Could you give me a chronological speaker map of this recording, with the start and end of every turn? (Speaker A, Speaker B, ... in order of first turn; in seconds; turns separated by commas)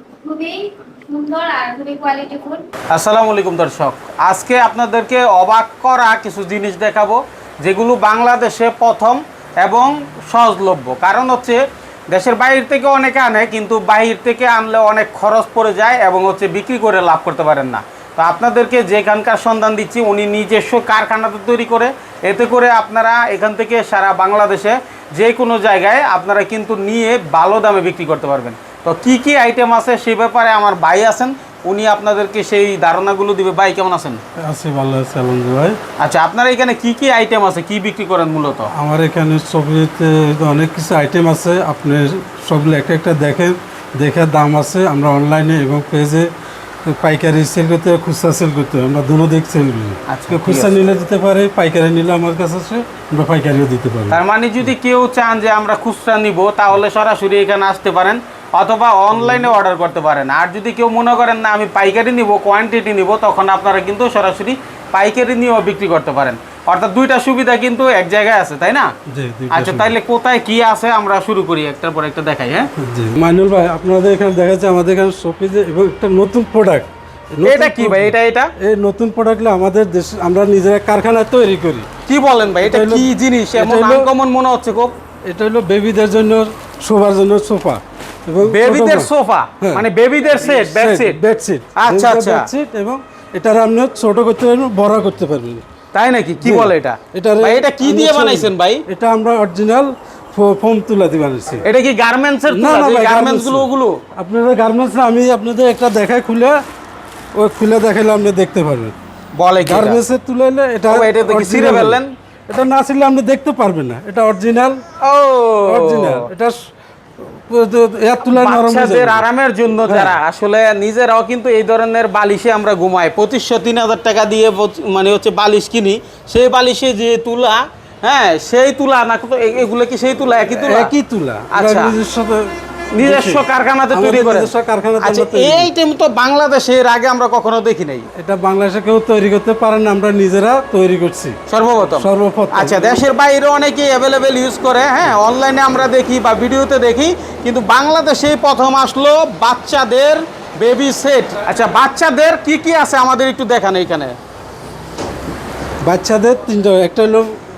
Speaker A: 0.2-2.6, Speaker B: 2.9-34.2, Speaker C: 34.4-35.8, Speaker B: 36.0-38.7, Speaker C: 38.7-46.3, Speaker C: 46.8-54.2, Speaker B: 50.1-50.8, Speaker B: 54.1-68.9, Speaker C: 59.1-59.5, Speaker C: 69.1-69.9, Speaker B: 69.5-72.7, Speaker C: 72.8-81.9, Speaker B: 77.4-78.5, Speaker B: 82.1-84.9, Speaker C: 82.6-84.1, Speaker C: 85.3-89.8, Speaker B: 88.4-91.2, Speaker C: 90.4-95.6, Speaker B: 91.8-92.5, Speaker B: 95.9-98.8, Speaker C: 96.4-101.7, Speaker B: 101.6-104.0, Speaker C: 102.5-106.6, Speaker C: 107.3-108.9, Speaker B: 109.3-110.0, Speaker C: 109.6-114.8, Speaker B: 110.9-112.1, Speaker B: 115.0-116.3, Speaker C: 115.7-116.5, Speaker C: 117.2-119.2, Speaker B: 118.2-130.9, Speaker C: 119.8-120.2, Speaker C: 130.6-135.7, Speaker B: 131.5-132.0, Speaker B: 132.9-138.1, Speaker C: 138.2-141.4, Speaker B: 141.5-154.1, Speaker C: 142.0-143.0, Speaker C: 155.8-157.3